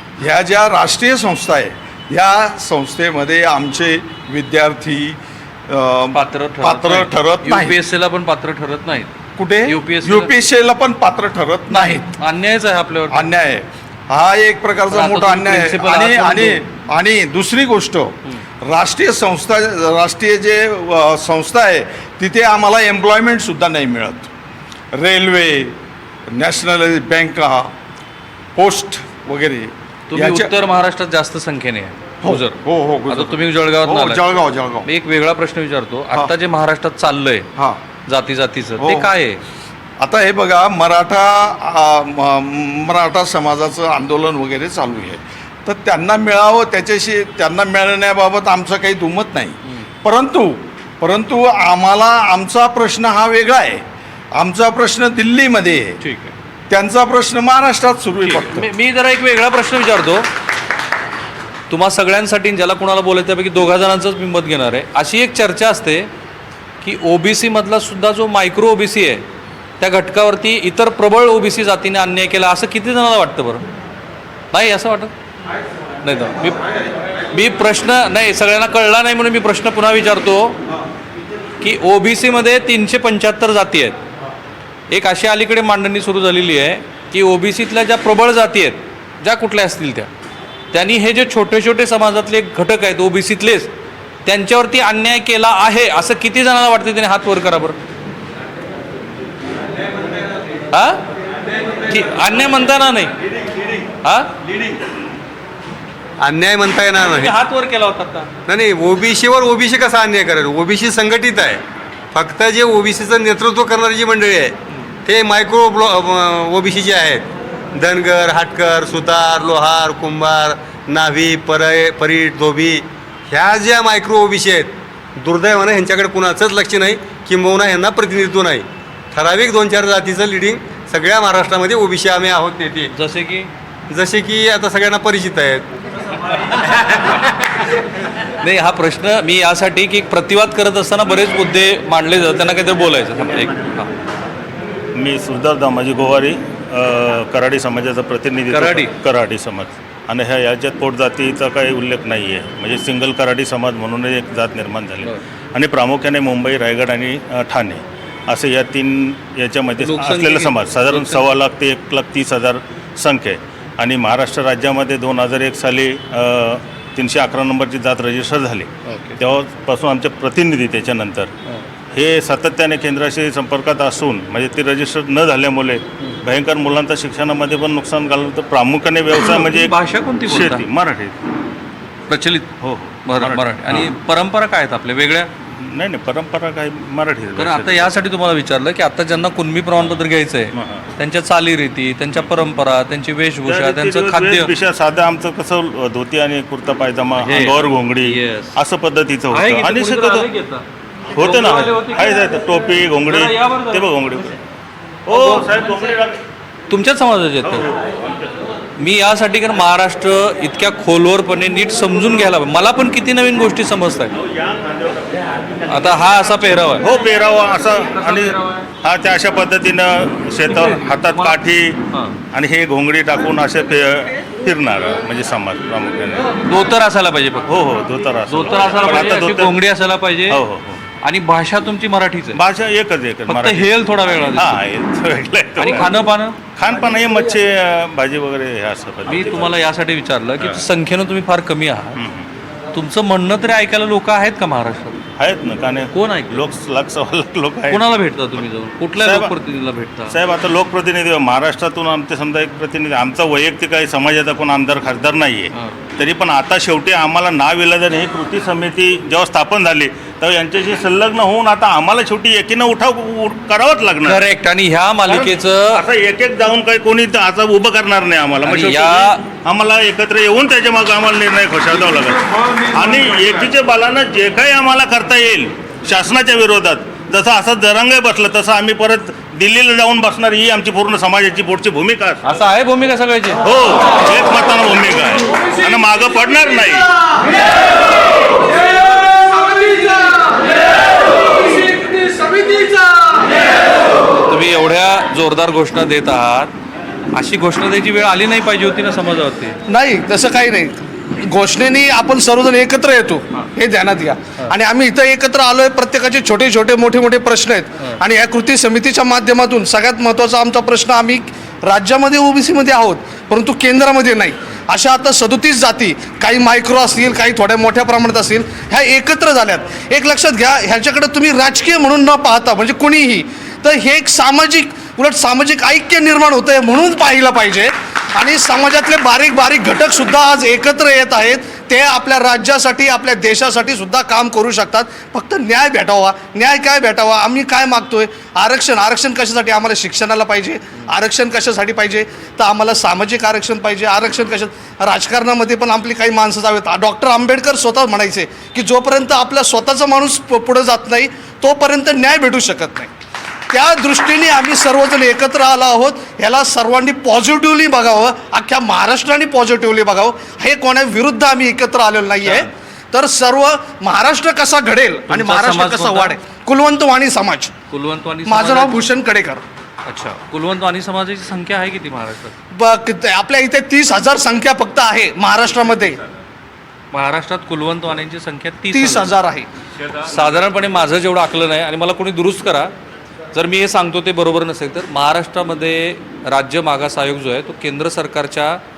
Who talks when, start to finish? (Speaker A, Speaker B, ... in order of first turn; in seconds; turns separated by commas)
Speaker A: 0.2-7.8, Speaker B: 6.1-9.1, Speaker A: 9.4-12.2, Speaker B: 9.7-10.3, Speaker B: 11.7-13.3, Speaker A: 13.1-24.3, Speaker B: 14.9-16.6, Speaker A: 24.9-25.8, Speaker A: 26.3-27.7, Speaker A: 28.6-30.5, Speaker B: 30.1-34.2, Speaker A: 32.2-34.9, Speaker B: 34.9-37.5, Speaker B: 38.1-39.4, Speaker A: 38.8-39.1, Speaker A: 40.0-56.0, Speaker B: 56.0-56.3, Speaker A: 56.7-58.7, Speaker B: 58.2-60.3, Speaker B: 61.7-66.1, Speaker B: 66.8-69.2, Speaker B: 69.8-73.7, Speaker B: 74.5-75.1, Speaker B: 76.0-76.6, Speaker B: 77.3-80.6, Speaker B: 81.6-84.0, Speaker B: 84.9-90.1, Speaker B: 90.7-93.7, Speaker B: 94.2-97.8, Speaker B: 100.7-101.0, Speaker B: 101.9-103.1, Speaker B: 104.0-104.3, Speaker C: 106.2-107.4, Speaker B: 107.0-108.3, Speaker C: 108.5-111.6, Speaker C: 112.1-132.9, Speaker B: 132.9-133.5, Speaker C: 133.9-135.7, Speaker B: 138.4-143.9, Speaker D: 144.9-171.3, Speaker B: 148.5-148.9, Speaker B: 159.8-161.2, Speaker B: 168.9-169.2, Speaker D: 171.9-181.2, Speaker B: 179.1-180.6, Speaker B: 182.1-182.5, Speaker D: 182.6-183.9, Speaker B: 183.1-185.3, Speaker D: 185.6-187.9, Speaker B: 187.4-194.5, Speaker D: 190.6-190.8, Speaker D: 193.5-200.3, Speaker B: 197.2-198.5, Speaker B: 199.3-200.6, Speaker D: 201.2-204.4, Speaker B: 201.2-202.3, Speaker B: 203.1-203.9, Speaker D: 205.1-206.2, Speaker B: 205.1-205.5, Speaker B: 206.7-207.7, Speaker D: 207.4-208.3, Speaker B: 208.8-214.2, Speaker D: 214.3-214.9, Speaker B: 215.7-216.9, Speaker D: 216.8-221.8, Speaker B: 218.0-218.6, Speaker B: 220.5-221.4, Speaker B: 221.9-222.2, Speaker D: 222.3-226.3, Speaker B: 226.3-227.5, Speaker D: 227.5-229.6, Speaker B: 228.3-230.4, Speaker D: 230.3-230.8, Speaker B: 231.0-232.4, Speaker D: 232.3-236.1, Speaker B: 233.3-234.6, Speaker B: 235.6-236.4, Speaker D: 236.6-239.6, Speaker B: 239.1-242.0, Speaker D: 242.0-242.3, Speaker B: 242.7-245.0, Speaker D: 245.2-248.0, Speaker B: 245.9-246.5, Speaker B: 247.7-250.2, Speaker D: 249.0-249.3, Speaker D: 250.1-264.3, Speaker B: 264.1-265.8, Speaker D: 265.1-282.2, Speaker B: 268.4-269.2, Speaker B: 271.9-273.5, Speaker B: 282.2-283.4, Speaker D: 283.4-286.9, Speaker B: 289.5-290.3, Speaker B: 291.5-293.2, Speaker B: 294.2-296.5, Speaker B: 297.1-299.6, Speaker E: 299.7-352.9, Speaker E: 353.5-367.5, Speaker B: 362.2-362.5, Speaker B: 365.1-366.2, Speaker B: 367.7-368.8, Speaker E: 368.2-369.4, Speaker B: 369.9-372.3, Speaker E: 372.5-376.0, Speaker B: 376.9-379.1, Speaker E: 378.7-379.5, Speaker B: 380.0-382.7, Speaker B: 383.3-388.6